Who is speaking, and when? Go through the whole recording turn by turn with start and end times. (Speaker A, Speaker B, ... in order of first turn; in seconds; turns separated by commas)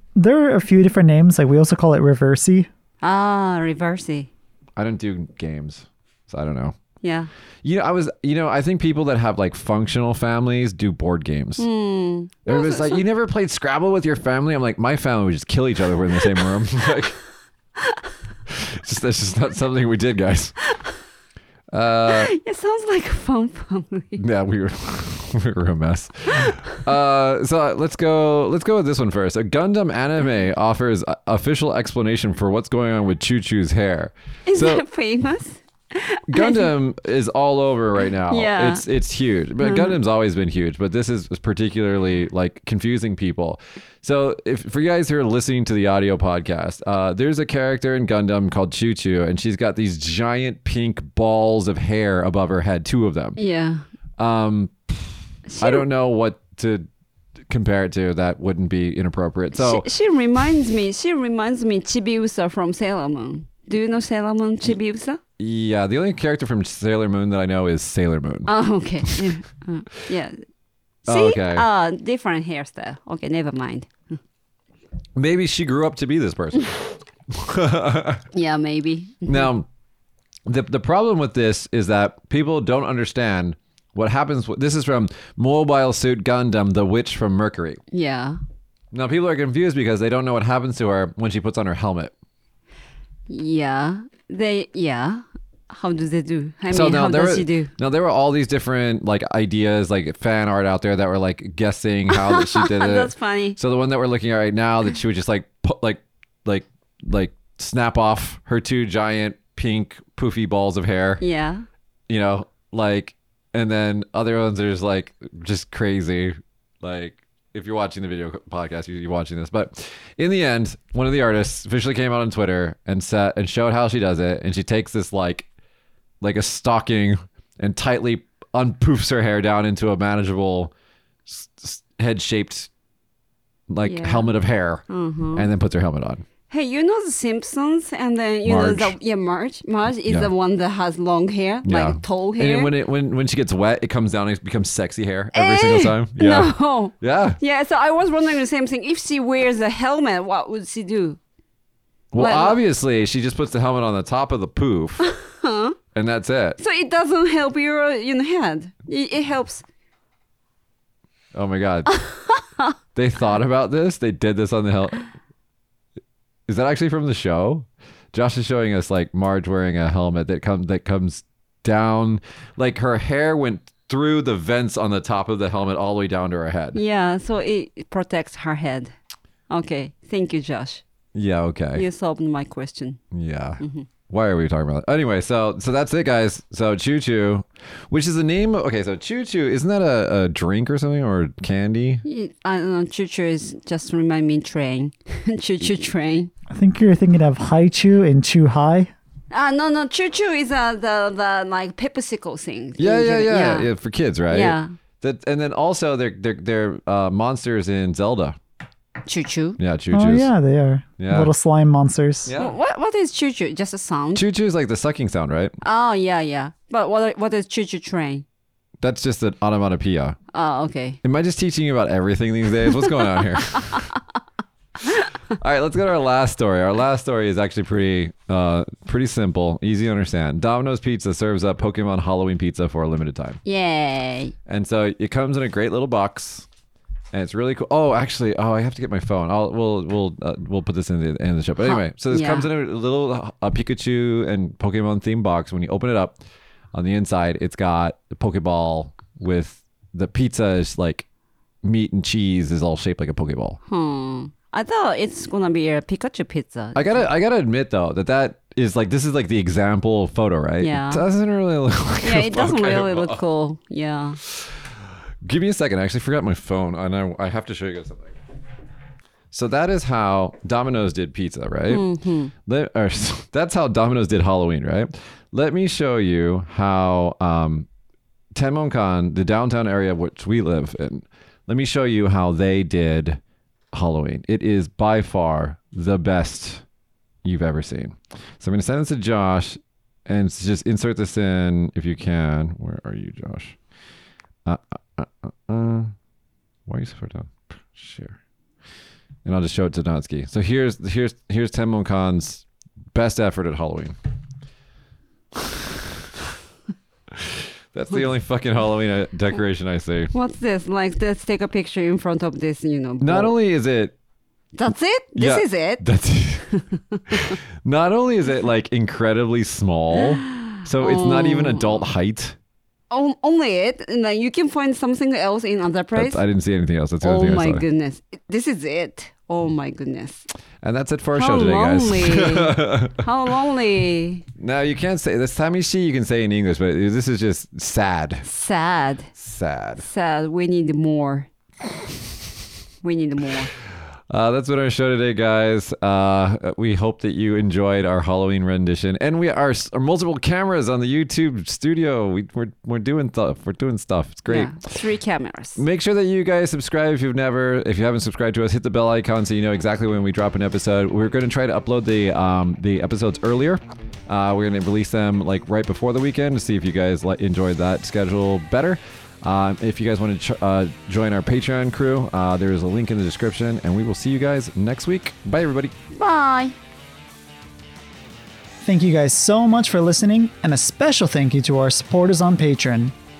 Speaker A: 0.1-2.7, Speaker B: 3.0-4.3, Speaker C: 4.8-6.8, Speaker B: 7.0-7.3, Speaker C: 7.6-11.7, Speaker B: 11.6-13.0, Speaker C: 12.5-17.2, Speaker B: 16.2-16.9, Speaker C: 18.5-20.6, Speaker C: 21.7-22.3, Speaker B: 22.1-24.2, Speaker C: 24.2-34.8, Speaker B: 34.5-36.7, Speaker C: 36.3-53.4, Speaker B: 38.1-38.9, Speaker B: 39.6-40.0, Speaker B: 53.4-53.8, Speaker C: 54.2-56.9, Speaker B: 55.5-55.8, Speaker C: 57.5-59.9, Speaker B: 59.5-65.2, Speaker C: 65.4-68.5, Speaker B: 68.5-70.4, Speaker C: 71.1-71.7, Speaker B: 71.1-73.9, Speaker C: 75.2-78.2, Speaker B: 78.3-79.5, Speaker C: 79.3-79.7, Speaker C: 80.5-87.8, Speaker B: 87.9-88.4, Speaker C: 88.9-92.1, Speaker B: 93.3-97.7, Speaker C: 96.7-111.2, Speaker B: 102.1-103.6, Speaker B: 111.2-111.7, Speaker C: 112.1-125.5, Speaker C: 126.2-130.7, Speaker C: 131.3-132.7, Speaker C: 133.7-134.8, Speaker B: 133.8-134.3, Speaker B: 134.9-135.5, Speaker C: 135.3-136.2, Speaker B: 136.5-142.7, Speaker C: 138.4-138.9, Speaker C: 141.6-147.4, Speaker B: 145.3-151.2, Speaker C: 152.1-155.1, Speaker B: 152.2-152.6, Speaker B: 155.0-155.8, Speaker C: 155.9-156.6, Speaker B: 156.6-159.6, Speaker C: 161.3-162.0, Speaker C: 162.9-165.1, Speaker C: 166.5-176.8, Speaker B: 176.8-178.9, Speaker B: 179.5-180.8, Speaker C: 181.2-181.8, Speaker B: 181.8-183.0, Speaker C: 183.1-192.0, Speaker B: 183.6-183.9, Speaker B: 192.0-196.3, Speaker A: 196.5-198.9, Speaker B: 199.3-203.7, Speaker C: 202.8-208.4, Speaker B: 204.3-204.7, Speaker B: 209.1-209.6, Speaker C: 209.6-210.3, Speaker A: 209.9-212.3, Speaker C: 211.0-211.3, Speaker C: 212.2-212.6, Speaker B: 212.4-214.2, Speaker C: 214.2-215.6, Speaker B: 215.6-218.2, Speaker C: 218.8-220.2, Speaker B: 220.3-221.0, Speaker C: 221.0-223.9, Speaker C: 225.4-233.4, Speaker B: 233.4-234.3, Speaker C: 234.5-236.5, Speaker C: 237.1-246.2, Speaker B: 241.7-242.5, Speaker C: 246.7-251.1, Speaker C: 251.6-253.6, Speaker B: 253.7-257.1, Speaker C: 256.7-263.2, Speaker B: 260.6-261.0, Speaker B: 262.0-264.2, Speaker C: 264.2-264.7, Speaker C: 265.2-268.1, Speaker C: 269.3-271.8, Speaker B: 271.7-272.3, Speaker C: 272.4-277.7, Speaker C: 278.4-283.2, Speaker C: 283.7-286.6, Speaker C: 287.2-293.6, Speaker C: 294.4-295.9, Speaker C: 296.7-298.2, Speaker C: 299.2-303.9, Speaker C: 305.4-305.9, Speaker C: 307.1-310.1, Speaker B: 310.1-313.3, Speaker C: 313.0-313.9, Speaker B: 314.6-315.8, Speaker C: 315.1-316.5, Speaker B: 316.5-317.4, Speaker C: 317.1-322.4, Speaker B: 320.0-321.9, Speaker B: 322.9-326.2, Speaker C: 325.9-327.6, Speaker B: 327.0-330.3, Speaker C: 330.6-333.1, Speaker B: 331.1-334.2, Speaker C: 334.4-338.3, Speaker B: 338.2-339.1, Speaker C: 339.2-339.9, Speaker B: 339.8-341.3, Speaker B: 342.8-343.5, Speaker C: 344.1-354.6, Speaker B: 354.3-355.6, Speaker C: 355.6-375.7, Speaker B: 375.9-376.6, Speaker A: 378.6-382.9